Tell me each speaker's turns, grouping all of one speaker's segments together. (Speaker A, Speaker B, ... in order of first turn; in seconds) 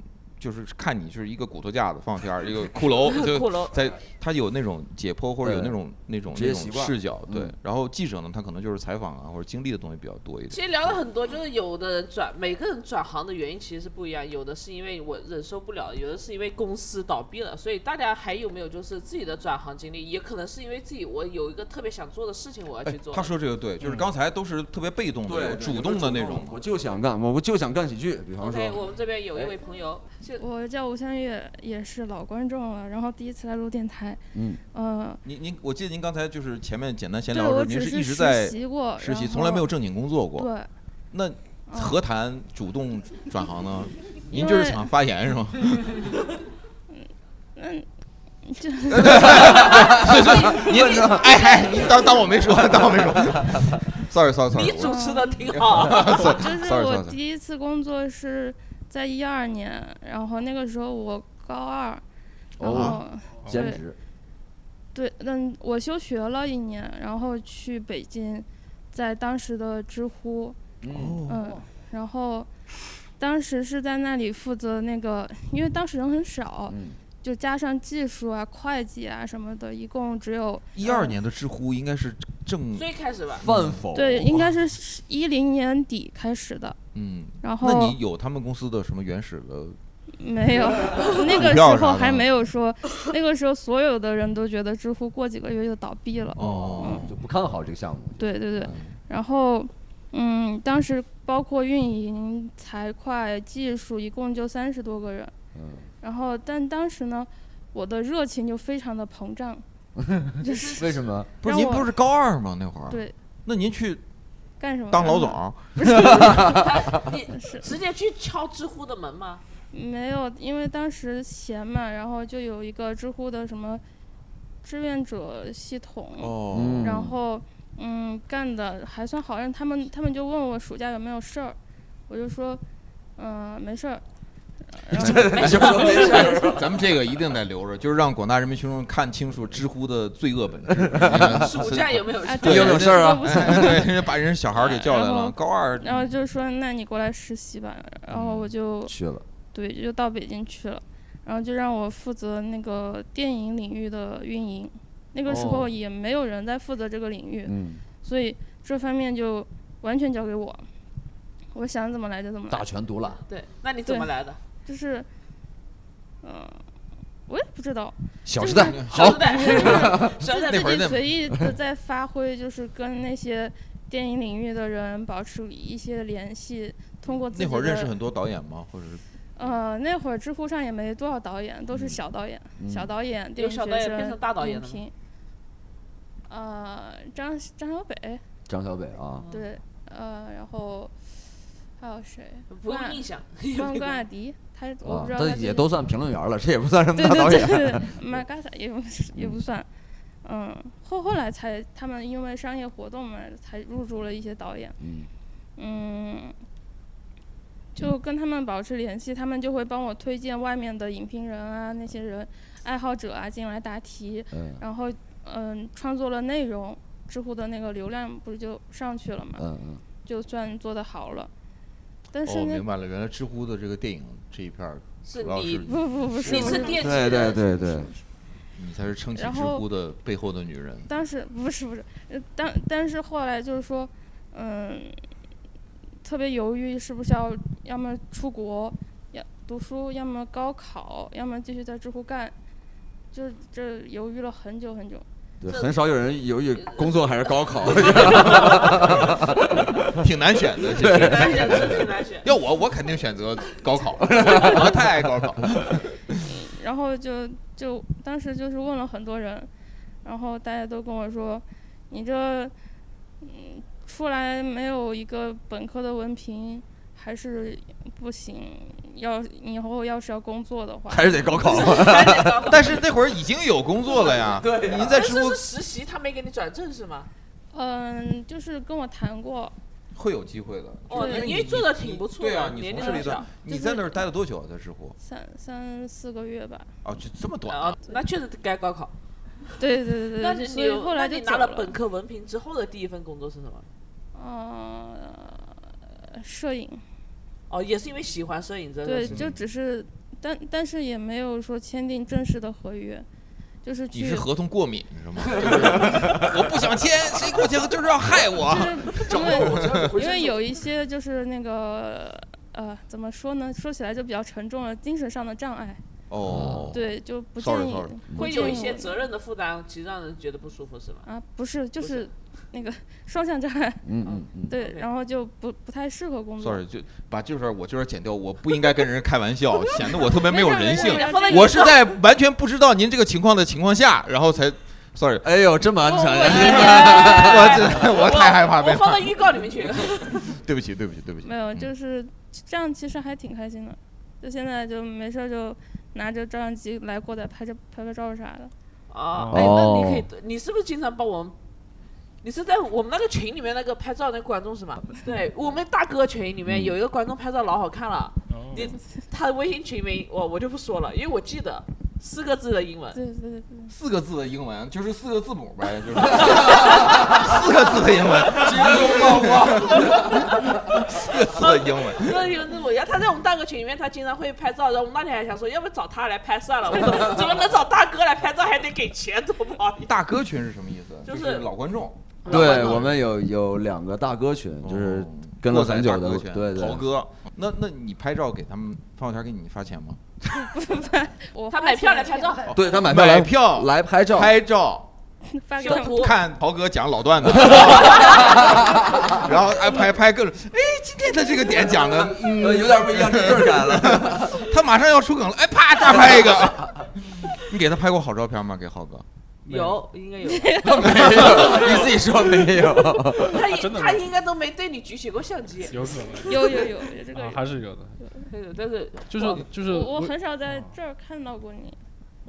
Speaker A: 0.4-10.6, 22.9-26.6, 35.2-40.5, 41.1-46.1, 48.9-57.2, 62.6-63.0, 70.9-71.6, 80.7-83.8, 86.9-89.8, 90.5-92.3, 96.3-97.1, 98.6-98.9, 111.4-114.0, 114.9-116.2, 126.2-127.1, 135.0-146.1, 148.1-148.5, 168.5-171.4, 177.1-179.0, 222.2-226.8, 228.6-230.9, 249.9-256.2, 272.4-275.4, 279.9-284.9, 286.8-287.8, 299.0-299.4, 303.9-310.0, 316.1-318.0, 326.4-335.3, 336.2-339.1, 339.8-341.7, 363.7-372.3, 379.8-382.8, 384.6-390.0, 392.5-394.9, 395.6-409.0
Speaker B: 3.1-3.7, 10.5-23.3, 28.4-30.4, 54.5-56.3, 82.8-83.4, 110.4-110.9, 116.4-119.4, 141.2-142.9, 163.3-164.4, 168.5-170.8, 183.3-184.8, 189.2-189.5, 192.5-194.0, 225.1-227.4, 247.8-248.8, 250.8-252.2, 271.5-272.8, 274.9-277.1, 280.9-283.3, 287.5-288.9, 290.1-293.6, 297.5-299.3, 308.9-310.6, 318.1-321.0, 321.8-322.1, 324.0-324.9, 329.8-332.0, 336.2-340.3, 348.9-351.3, 352.2-363.0, 366.5-366.9, 369.8-370.2, 371.2-379.9, 381.0-381.5, 382.2-382.9, 391.5-392.5, 395.6-396.1, 397.4-398.2, 409.5-412.0, 413.2-415.8, 418.3-419.4
Speaker C: 5.4-5.8, 6.3-7.5, 25.2-29.6, 34.3-34.6, 48.9-51.3, 62.6-64.0, 70.8-71.6, 76.7-77.0, 83.4-84.5, 96.4-98.7, 105.5-105.9, 110.0-111.3, 115.8-116.9, 126.5-127.2, 134.9-136.8, 140.8-141.5, 142.4-143.9, 148.8-149.2, 155.2-155.7, 157.4-157.8, 162.5-163.2, 168.2-170.2, 181.7-182.0, 182.6-182.9, 188.5-189.2, 194.8-198.1, 199.1-199.4, 204.8-205.1, 214.3-214.6, 219.3-219.8, 226.3-227.9, 245.4-250.0, 250.6-251.8, 254.1-254.9, 270.9-272.6, 274.2-275.0, 305.4-306.2, 316.2-316.8, 318.1-318.6, 323.8-324.6, 335.2-337.8, 349.3-350.1, 356.5-356.8, 366.2-367.0, 368.3-370.3, 382.3-386.9, 392.5-394.3, 397.5-399.2, 401.8-404.4, 410.6-413.4
Speaker D: 30.4-34.2, 34.7-35.2, 37.3-39.7, 40.4-40.7, 41.7-42.0, 44.3-44.9, 47.5-47.9, 48.5-49.6, 54.8-62.0, 62.6-63.8, 64.9-70.6, 71.2-72.5, 73.2-81.2, 83.9-86.8, 87.4-88.0, 90.2-97.1, 98.2-105.3, 106.0-109.6, 110.4-110.8, 111.4-111.9, 112.9-113.1, 114.6-116.6, 117.3-117.6, 119.7-123.8, 124.6-131.6, 132.1-132.6, 133.2-134.0, 134.9-135.9, 142.2-143.9, 144.6-148.9, 149.5-160.6, 161.5-162.7, 163.8-164.1, 164.6-165.1, 166.2-166.6, 167.3-168.7, 169.2-178.0, 179.4-184.9, 186.3-188.2, 189.3-190.9, 191.8-195.7, 196.9-199.7, 200.2-204.8, 205.6-206.3, 207.7-219.4, 220.0-221.3, 222.1-222.7, 225.7-227.9, 229.2-229.6, 230.9-235.0, 236.0-242.3, 243.1-245.1, 256.2-259.5, 260.0-262.5, 263.2-271.6, 277.5-279.5, 280.9-281.3, 282.8-284.0, 285.0-286.7, 289.6-291.8, 294.1-295.5, 296.1-296.8, 298.8-303.1, 303.6-304.3, 308.5-315.8, 316.7-319.1, 321.1-323.8, 324.5-326.6, 330.3-331.7, 335.9-337.0, 341.2-348.5, 362.9-363.7, 390.3-392.5, 395.3-396.2, 410.3-410.8, 416.2-417.4, 419.6-421.8
Speaker E: 349.1-349.6, 358.3-358.7, 409.5-409.8, 413.5-414.0, 415.7-418.0, 419.1-420.7